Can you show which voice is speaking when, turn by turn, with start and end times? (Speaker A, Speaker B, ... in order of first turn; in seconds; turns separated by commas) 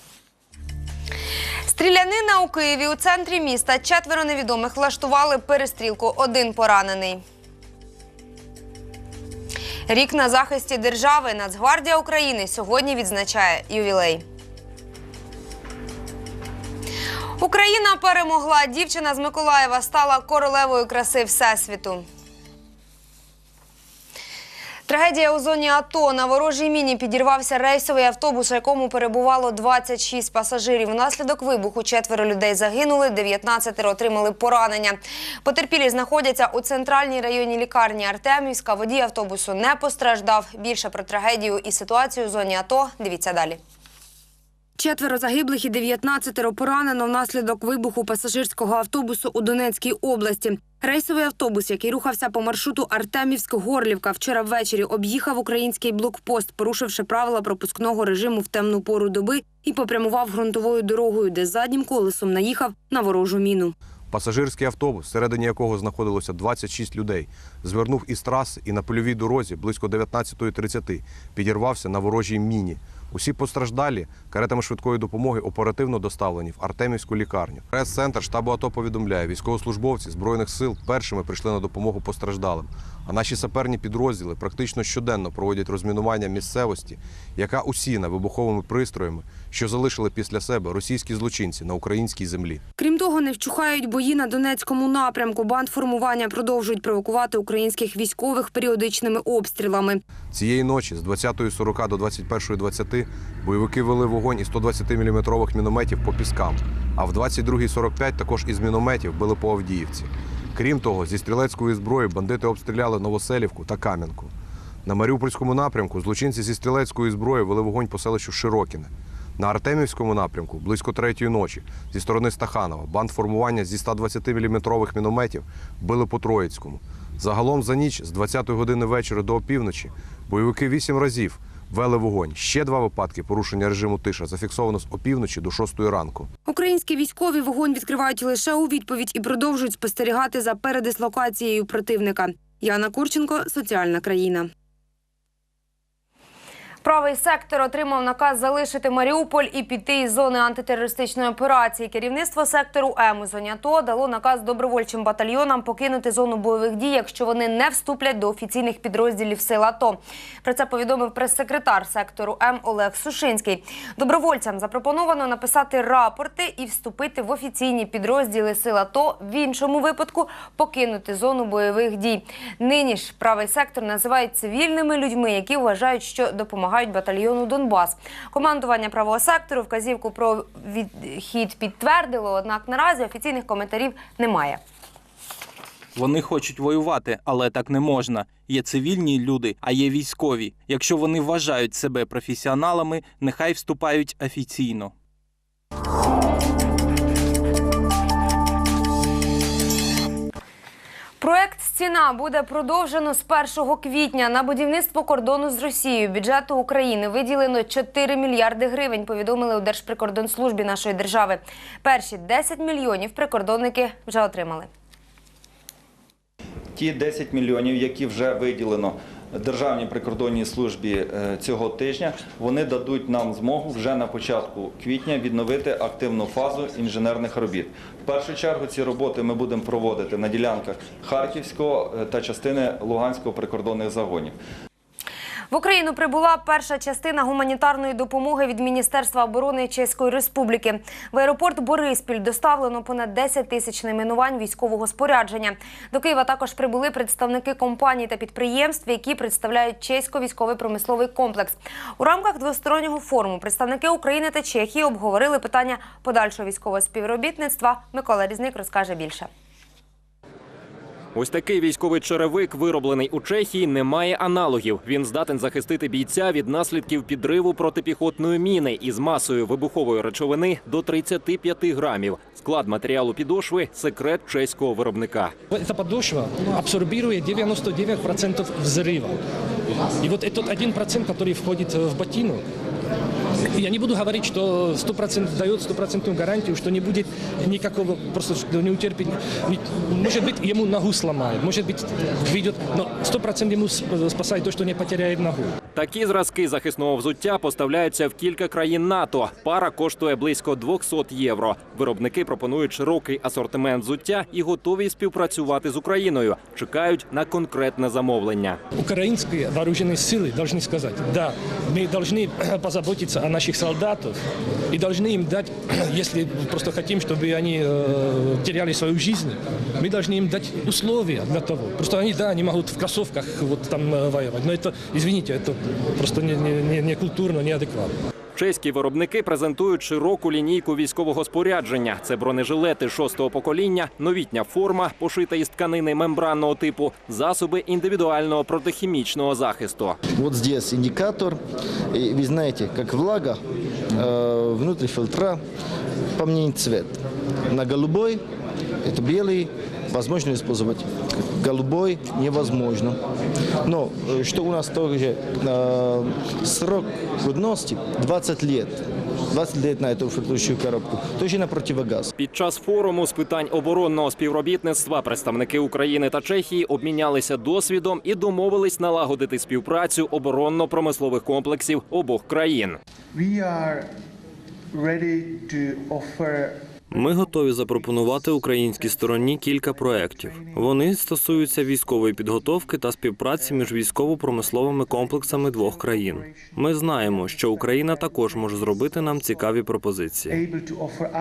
Speaker A: 1.7-7.2, Speaker A: 9.9-14.2, Speaker A: 17.4-22.0, Speaker A: 24.9-43.6, Speaker A: 44.8-63.7, Speaker B: 64.1-92.6, Speaker A: 92.8-100.0, Speaker B: 100.3-114.3, Speaker B: 114.8-136.3, Speaker A: 136.5-144.5, Speaker A: 146.8-184.6, Speaker C: 185.9-194.9, Speaker A: 201.2-214.7, Speaker D: 216.8-234.3, Speaker A: 235.5-259.3, Speaker E: 261.1-275.3, Speaker F: 275.5-279.2, Speaker F: 280.0-282.4, Speaker F: 283.5-295.5, Speaker E: 295.8-308.6, Speaker F: 308.8-314.2, Speaker F: 314.7-327.9, Speaker E: 328.4-340.0, Speaker G: 340.2-341.4, Speaker G: 341.9-343.4, Speaker G: 343.9-345.4, Speaker G: 346.2-347.0, Speaker G: 347.5-348.2, Speaker G: 348.9-353.0, Speaker G: 353.6-362.1, Speaker E: 362.2-372.8, Speaker H: 376.9-390.5